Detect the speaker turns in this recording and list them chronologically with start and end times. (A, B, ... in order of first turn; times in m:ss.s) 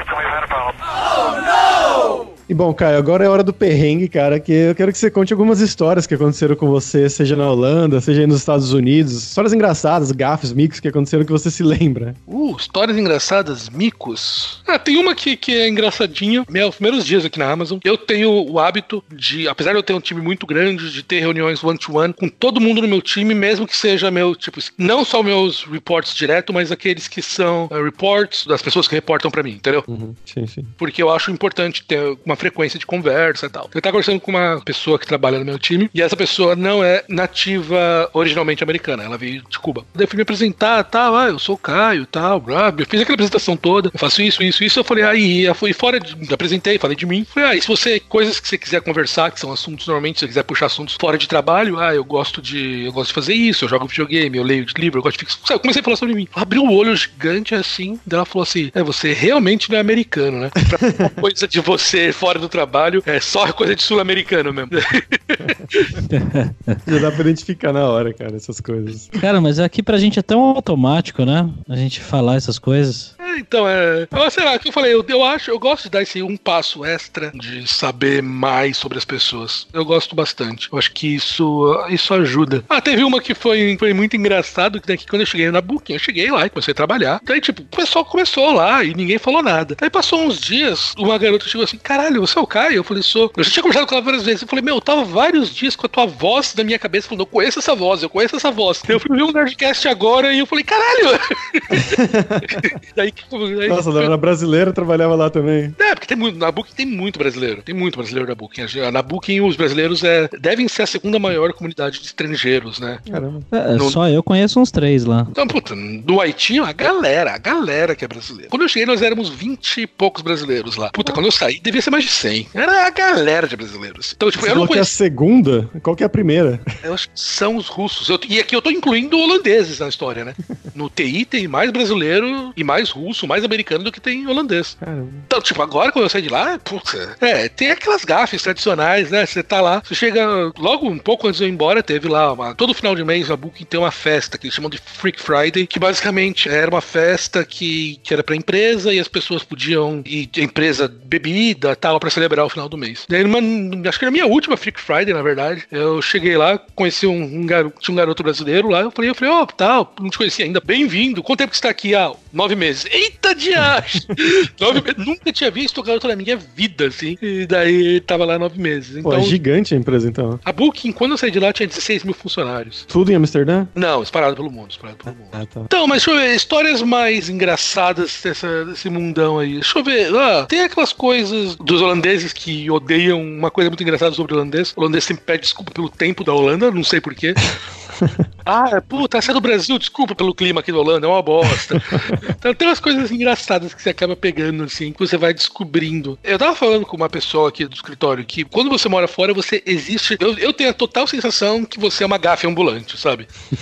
0:02.5-0:12.2 A
0:12.3-0:29.9 B
0:29.9-0:30.7 A
0:30.8-1:06.0 B
1:00.7-1:01.1 A
1:06.1-1:06.8 C
1:06.8-1:09.1 A
1:09.1-1:13.1 C
1:13.2-1:44.1 B
1:41.7-1:42.6 A
1:43.7-1:45.7 A
1:45.8-1:53.0 B
1:53.1-1:53.5 A
1:53.5-1:55.3 C
1:55.3-2:04.9 B
2:04.4-2:06.6 A
2:06.8-2:14.8 B
2:14.8-2:15.2 A
2:15.3-2:49.4 B
2:49.0-2:50.4 A
2:50.4-2:52.8 B
2:52.9-2:53.7 A
2:53.8-3:07.4 B
2:55.3-2:55.7 A
3:08.0-3:08.2 A
3:08.4-3:23.3 B